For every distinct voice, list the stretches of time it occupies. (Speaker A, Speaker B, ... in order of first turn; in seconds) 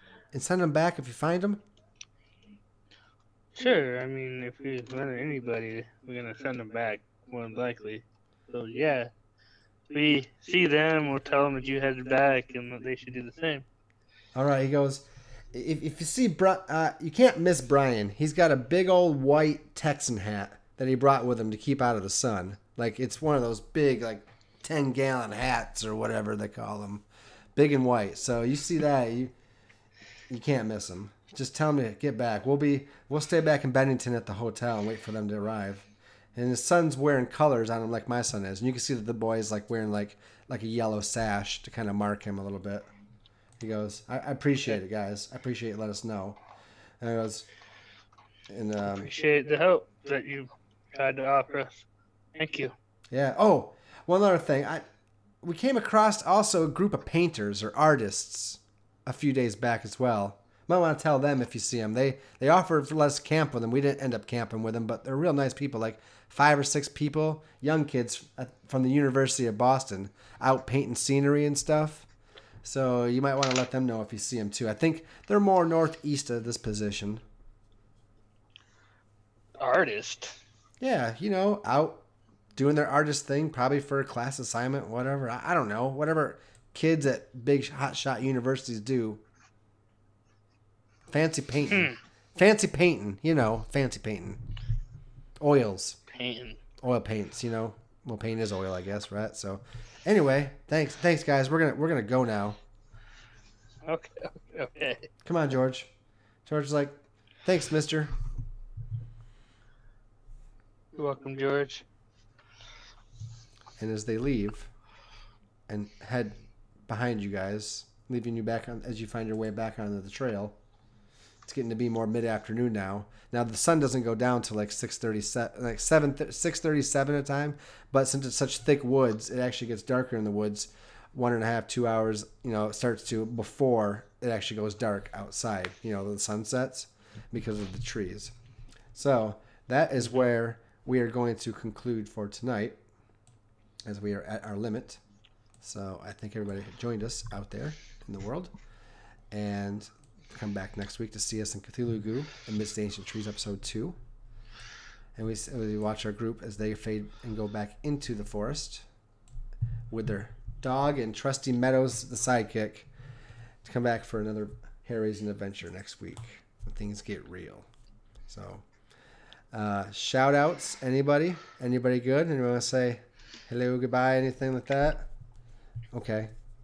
Speaker A: 0.3-1.6, 14.3-29.3, 30.3-42.9, 43.6-46.4, 47.0-47.5, 48.5-49.1, 53.1-54.9, 55.4-72.1, 72.6-77.2, 80.8-82.0, 82.6-89.2, 91.1-94.4, 95.4-96.0, 96.8-102.6, 105.2-105.9, 106.5-108.1, 113.8-114.7, 115.7-116.4, 116.9-120.6, 121.5-138.3, 138.9-142.8, 143.8-145.0, 145.6-148.5, 149.3-154.0, 155.2-158.8, 159.9-162.9, 163.6-167.7, 168.3-168.6, 169.5-175.1, 175.9-176.3
Speaker B: 3.5-9.1, 9.9-13.7, 48.9-52.7, 79.6-80.4, 96.1-96.6, 103.9-105.1, 111.0-111.8